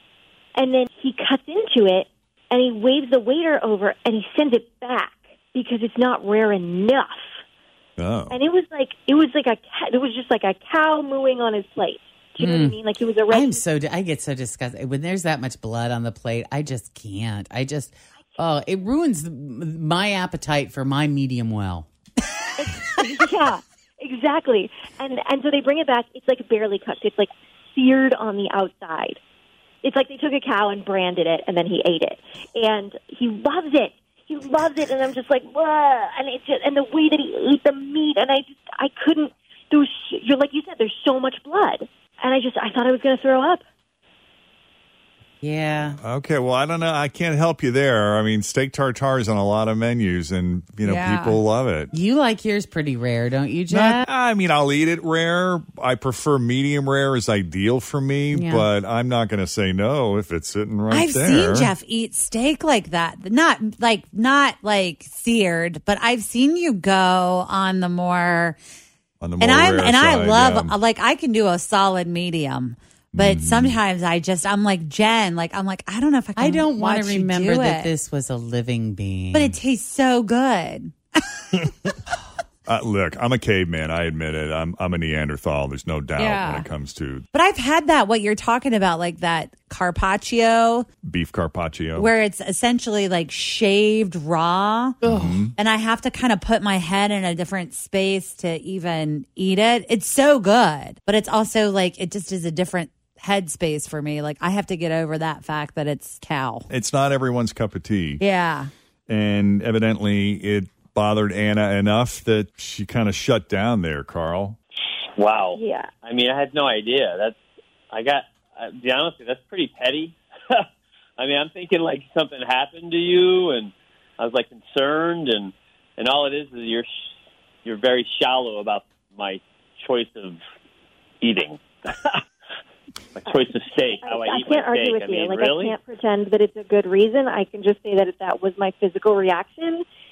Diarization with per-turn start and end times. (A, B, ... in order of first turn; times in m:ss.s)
0:00.6-0:07.4 A
0:08.0-0:08.4 B
0:08.3-0:13.6 A
0:12.4-0:21.9 C
0:22.6-0:29.2 A
0:29.8-0:43.6 A
0:45.4-0:46.0 C
0:45.8-0:51.9 B
0:50.8-0:51.4 D
0:51.9-0:54.0 C
0:53.7-1:01.7 B
0:58.3-0:58.6 C
1:00.9-1:08.6 D
1:09.2-1:10.8 B
1:09.4-1:17.9 D
1:13.1-1:13.8 B
1:16.4-1:19.6 C
1:19.3-1:20.9 D
1:22.7-1:27.2 B
1:26.2-1:26.7 D
1:27.3-1:30.9 D
1:31.0-1:32.1 B
1:32.0-1:35.0 D
1:35.0-1:35.5 B
1:35.1-1:35.4 C
1:35.5-1:46.7 D
1:46.7-1:48.2 B
1:48.2-1:48.7 D
1:49.1-1:54.6 B
1:55.2-1:57.4 E
1:55.5-1:55.9 A
1:57.9-2:00.6 E
2:01.2-2:06.9 E
2:07.6-2:10.4 E
2:11.2-2:12.2 E
2:13.2-2:15.8 E
2:13.2-2:19.8 A